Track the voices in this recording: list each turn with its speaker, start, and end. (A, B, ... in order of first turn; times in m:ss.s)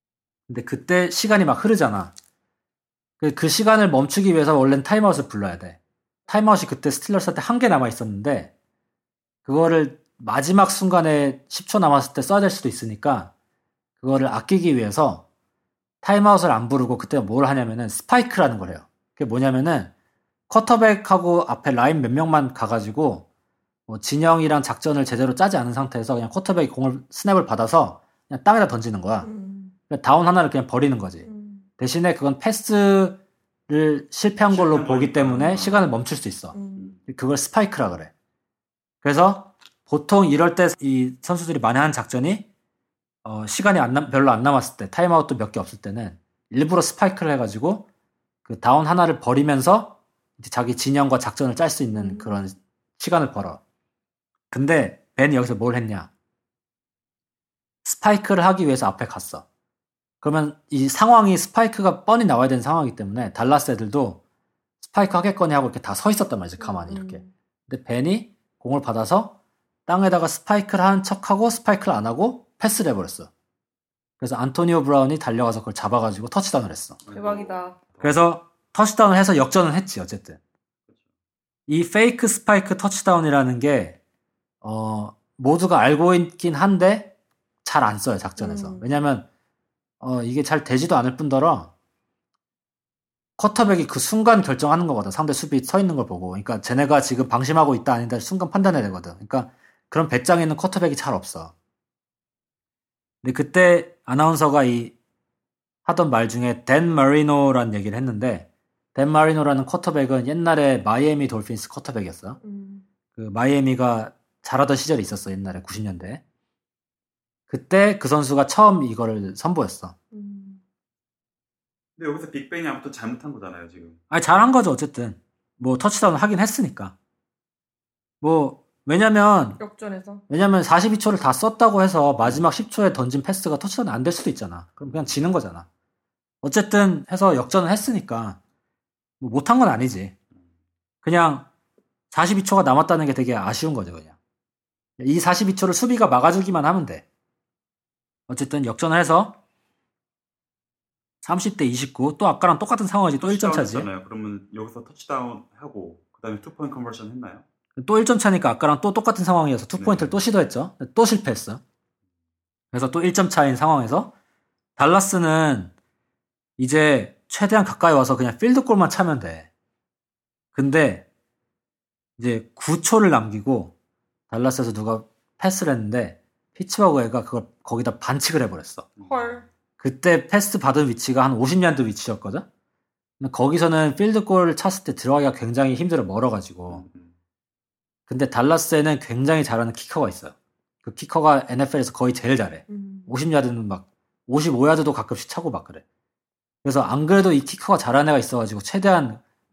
0:00.5-0:02.1 A
0:03.2-0:08.5 A
0:09.4-0:13.3 A
0:14.0-0:15.2 A
0:16.0-0:19.9 A
0:20.5-0:23.2 A
0:23.9-0:29.3 A
0:29.2-0:29.8 B
0:29.9-0:31.3 A
0:31.2-0:31.6 B
0:31.8-0:36.6 A
0:34.5-0:35.9 C
0:35.3-0:35.7 B
0:36.5-0:37.0 B
0:37.1-0:38.1 A
0:39.0-0:42.5 A
0:43.2-0:47.9 A
0:48.4-0:53.6 A
0:51.9-0:52.4 B
0:54.5-0:56.1 A
0:57.8-0:59.4 A
1:00.2-1:04.2 A
1:04.8-1:13.3 A
1:06.6-1:07.3 B
1:14.2-1:17.0 A
1:17.0-1:18.2 C
1:17.1-1:17.8 B
1:18.0-1:20.4 A
1:21.7-1:24.0 A
1:24.6-1:29.3 A
1:28.4-1:28.9 B
1:30.0-1:31.7 A
1:33.4-1:41.5 A
1:43.2-1:44.9 A
1:45.9-1:52.4 A
1:52.4-1:52.9 B
1:53.1-1:56.2 A
1:57.5-1:59.9 A
2:00.1-2:00.6 B
2:02.0-2:04.0 C
2:04.1-2:06.9 A
2:08.2-2:09.6 A
2:09.6-2:10.2 B
2:10.3-2:15.7 A
2:14.8-2:15.1 C
2:16.4-2:18.4 A
2:19.2-2:20.1 A
2:21.0-2:21.5 A
2:22.1-2:24.1 A
2:25.0-2:27.0 A
2:28.3-2:29.4 A
2:31.2-2:33.9 A
2:33.2-2:37.4 C
2:37.8-2:41.6 A
2:39.8-2:40.2 C
2:42.7-2:44.1 A
2:44.8-2:45.7 A
2:46.6-2:49.5 A
2:50.5-2:51.1 A
2:52.2-2:53.7 A
2:54.3-2:58.9 A
2:59.0-2:59.4 C
2:59.1-2:59.4 B
2:59.8-3:02.4 A
3:03.2-3:06.8 A
3:06.7-3:07.1 C
3:08.1-3:15.8 A
3:12.7-3:13.1 B
3:16.6-3:19.2 A